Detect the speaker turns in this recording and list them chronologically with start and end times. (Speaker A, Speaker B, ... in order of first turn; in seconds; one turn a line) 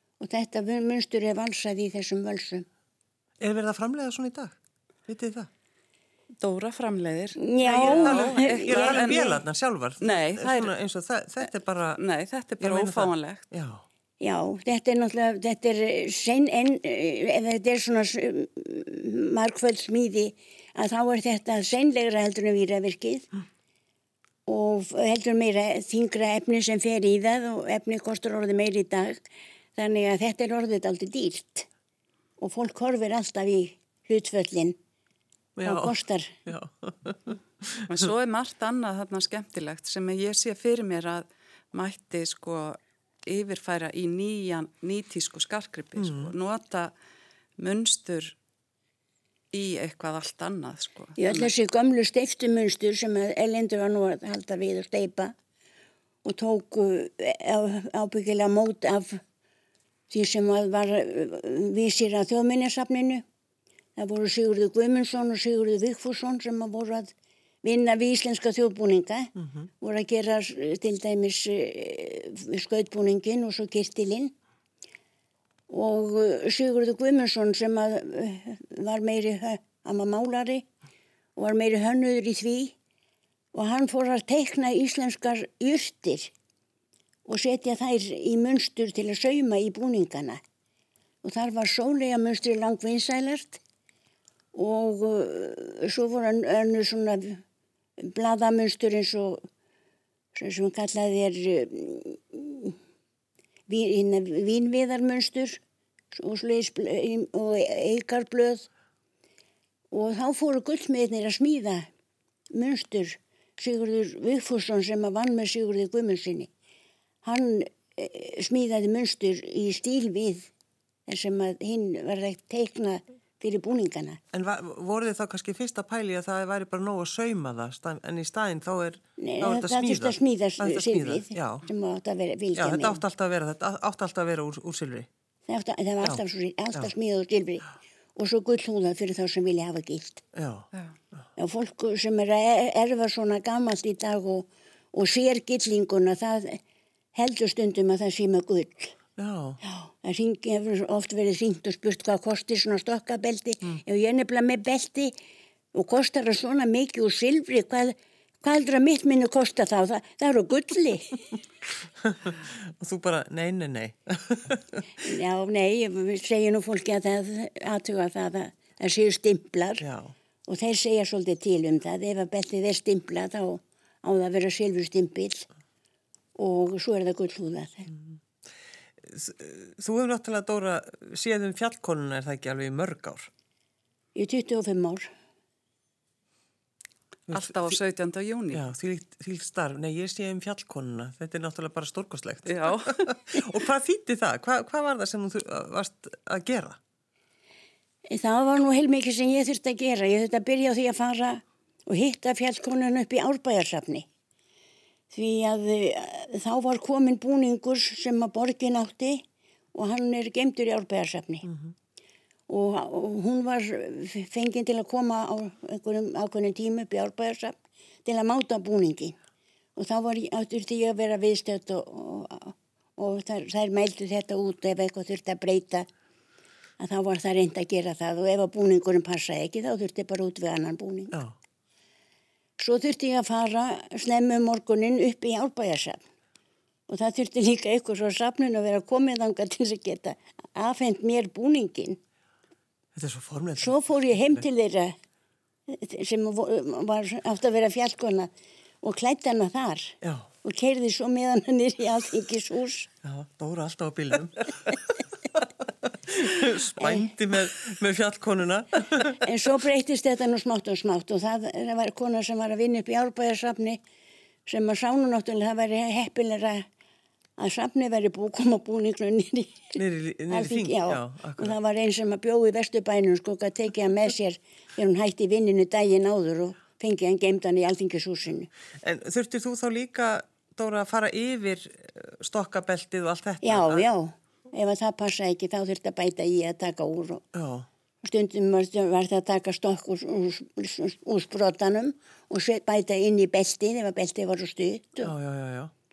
Speaker A: 0.2-2.6
Speaker B: 3.4-5.5
Speaker C: 6.4-9.3
Speaker A: 7.4-9.4
Speaker B: 7.8-12.0
Speaker C: 10.0-10.7
Speaker C: 11.4-13.4
Speaker B: 12.6-13.8
Speaker A: 14.2-23.3
Speaker A: 24.4-29.2
Speaker A: 29.7-31.7
Speaker A: 32.4-34.8
Speaker B: 35.6-38.1
Speaker A: 35.6-36.4
Speaker C: 37.9-46.9
Speaker B: 46.0-46.3
Speaker C: 47.6-48.4
Speaker C: 49.5-51.5
Speaker A: 51.2-55.3
Speaker A: 56.2-59.2
Speaker A: 60.1-63.2
Speaker A: 64.0-67.1
Speaker A: 67.6-74.3
Speaker A: 75.7-80.7
Speaker A: 81.3-82.7
Speaker A: 83.5-86.3
Speaker A: 87.2-90.4
Speaker A: 91.2-93.6
Speaker A: 94.5-97.4
Speaker A: 98.0-99.4
Speaker A: 100.3-102.8
Speaker A: 103.7-105.6
Speaker A: 106.1-108.7
Speaker A: 109.9-111.9
Speaker A: 112.5-116.5
Speaker A: 117.2-120.5
Speaker A: 121.1-124.2
Speaker B: 124.3-131.7
Speaker A: 129.2-133.0
Speaker B: 132.5-135.1
Speaker A: 135.5-140.2
Speaker B: 140.3-140.7
Speaker A: 141.4-146.6
Speaker A: 147.1-148.9
Speaker B: 149.2-149.6
Speaker A: 149.6-155.1
Speaker A: 155.7-161.3
Speaker B: 162.0-165.1
Speaker A: 165.0-169.8
Speaker B: 169.8-170.1
Speaker A: 170.5-175.5
Speaker A: 176.4-177.9
Speaker B: 179.0-183.3
Speaker A: 184.1-185.1
Speaker B: 187.3-187.7
Speaker C: 187.3-188.7
Speaker B: 188.5-196.8
Speaker C: 192.5-193.0
Speaker A: 198.1-204.1
Speaker A: 205.1-211.5
Speaker A: 212.5-219.2
Speaker A: 219.8-225.9
Speaker A: 226.8-231.2
Speaker A: 232.6-236.0
Speaker A: 236.9-242.0
Speaker B: 242.9-244.4
Speaker A: 243.6-244.9
Speaker A: 245.7-248.3
Speaker A: 248.8-252.9
Speaker B: 250.0-250.3
Speaker B: 253.0-254.8
Speaker B: 255.3-259.2
Speaker A: 256.8-257.1
Speaker A: 259.1-263.8
Speaker A: 264.4-266.6
Speaker A: 267.4-278.5
Speaker B: 269.7-271.6
Speaker B: 278.8-283.8
Speaker A: 283.4-287.2
Speaker B: 287.3-287.7
Speaker A: 288.0-295.1
Speaker B: 295.0-295.7